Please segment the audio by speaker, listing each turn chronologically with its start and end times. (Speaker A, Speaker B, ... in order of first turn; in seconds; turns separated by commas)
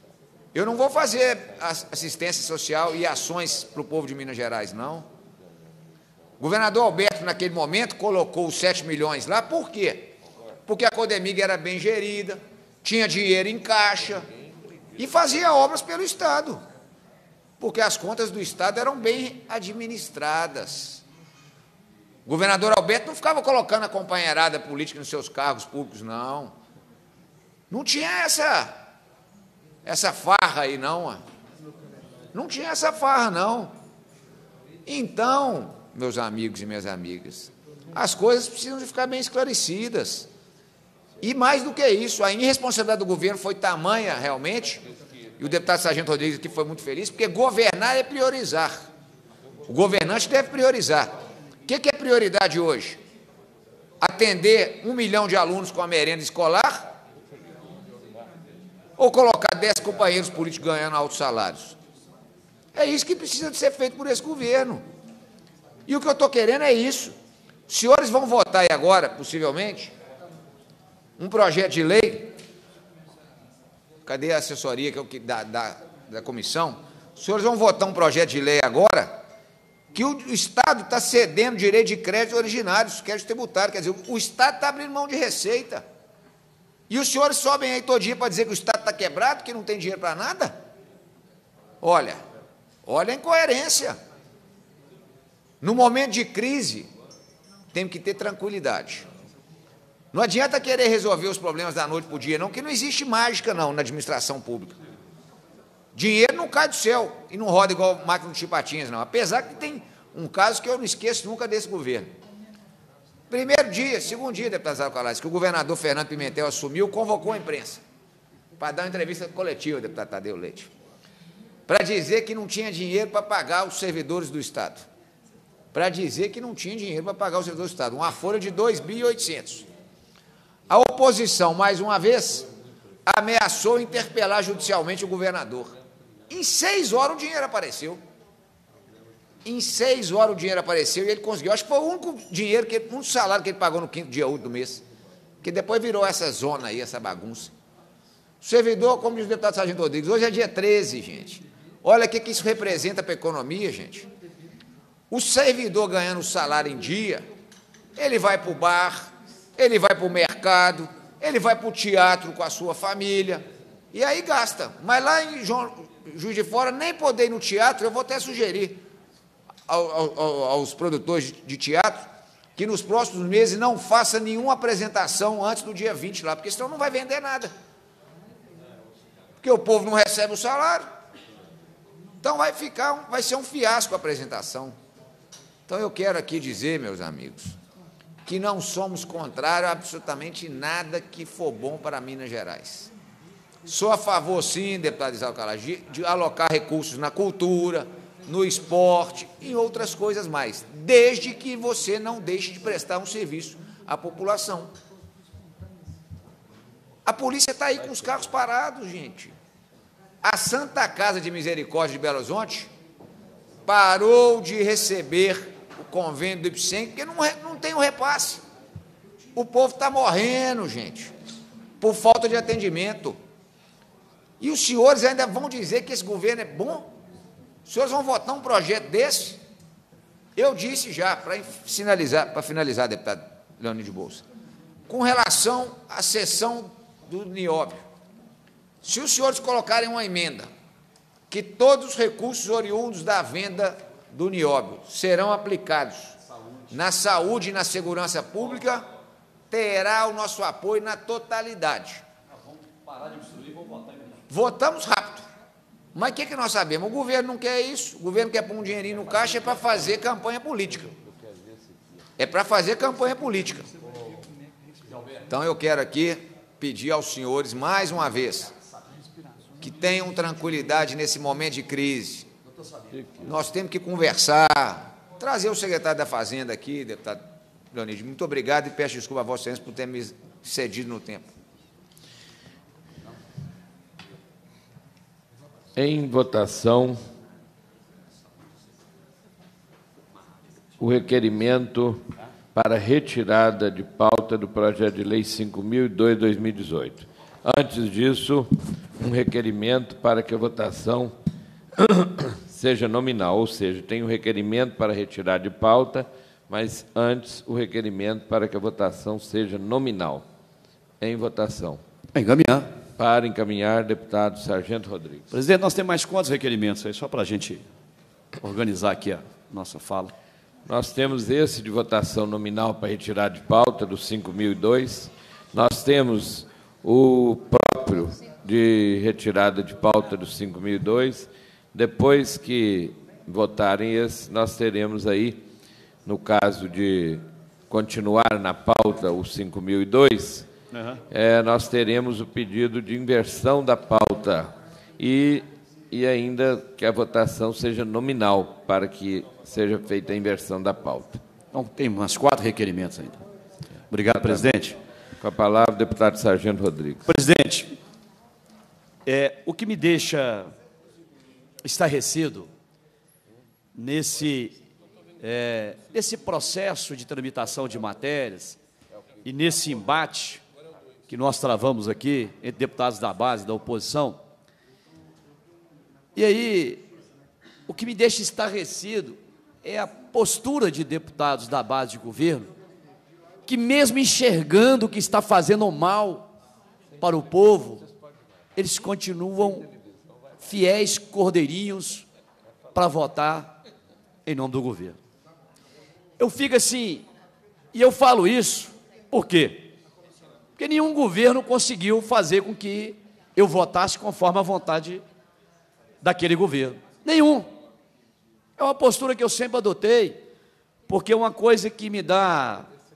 Speaker A: 0.5-5.1, Speaker A: 6.4-10.1, Speaker A: 10.7-14.2, Speaker A: 14.9-16.6, Speaker A: 17.6-21.0, Speaker A: 22.2-26.5, Speaker A: 27.7-28.8, Speaker A: 29.8-31.2, Speaker A: 32.3-33.7, Speaker A: 34.9-40.3, Speaker A: 41.2-44.9, Speaker A: 45.4-48.9, Speaker A: 49.7-51.1, Speaker A: 51.6-53.0, Speaker A: 54.0-56.9, Speaker A: 59.0-61.8, Speaker A: 62.7-64.8, Speaker A: 65.9-67.1, Speaker A: 67.7-69.9, Speaker A: 71.2-72.4, Speaker A: 74.0-79.2, Speaker A: 79.9-85.8, Speaker A: 86.9-90.6, Speaker A: 91.8-92.2, Speaker A: 92.8-94.0, Speaker A: 95.6-96.9, Speaker A: 97.7-99.1, Speaker A: 100.1-104.8, Speaker A: 105.9-112.1, Speaker A: 113.3-117.8, Speaker A: 118.6-120.7, Speaker A: 121.7-124.9, Speaker A: 125.7-129.7, Speaker A: 130.7-132.5, Speaker A: 133.1-135.8, Speaker A: 136.3-138.0, Speaker A: 139.4-144.8, Speaker A: 145.4-147.5, Speaker A: 148.4-154.1, Speaker A: 155.1-157.2, Speaker A: 157.9-168.8, Speaker A: 169.7-177.5, Speaker A: 179.4-180.9, Speaker A: 182.2-184.7, Speaker A: 185.7-187.6, Speaker A: 188.2-192.9, Speaker A: 193.7-204.7, Speaker A: 207.1-209.3, Speaker A: 210.2-212.7, Speaker A: 213.7-218.4, Speaker A: 219.3-221.1, Speaker A: 221.8-223.2, Speaker A: 224.4-226.9, Speaker A: 227.6-229.4, Speaker A: 230.3-234.2, Speaker A: 234.9-237.8, Speaker A: 238.8-240.5, Speaker A: 241.3-246.2, Speaker A: 246.7-248.9, Speaker A: 249.5-252.0, Speaker B: 252.7-254.2, Speaker A: 254.3-255.3, Speaker A: 255.9-261.0, Speaker A: 262.2-263.7, Speaker B: 264.9-265.2, Speaker A: 265.3-268.5, Speaker A: 269.6-272.3, Speaker B: 272.6-272.9, Speaker A: 273.2-281.3, Speaker C: 285.8-287.0, Speaker C: 290.8-292.0, Speaker C: 292.5-301.1, Speaker C: 301.8-310.2, Speaker C: 311.0-311.8, Speaker B: 312.1-312.7, Speaker C: 313.0-315.3, Speaker B: 315.3-317.6, Speaker B: 318.4-320.1, Speaker C: 320.7-335.4, Speaker C: 336.0-340.5, Speaker B: 340.7-341.0, Speaker C: 341.1-351.2, Speaker B: 351.5-353.2, Speaker B: 353.9-354.8, Speaker C: 355.2-357.1, Speaker B: 357.1-357.7, Speaker B: 359.1-360.5, Speaker B: 361.6-362.5, Speaker B: 363.7-364.6, Speaker B: 365.2-368.6, Speaker B: 369.2-370.4, Speaker B: 371.1-374.2, Speaker B: 376.1-376.8, Speaker B: 377.7-382.5, Speaker B: 383.4-386.3, Speaker B: 387.0-387.8, Speaker B: 388.6-389.7, Speaker B: 390.4-392.1, Speaker B: 392.7-393.5, Speaker B: 394.2-395.0, Speaker B: 396.2-397.1, Speaker B: 397.7-399.7, Speaker B: 400.6-405.0, Speaker B: 406.0-407.5, Speaker B: 408.6-410.2, Speaker B: 410.9-412.7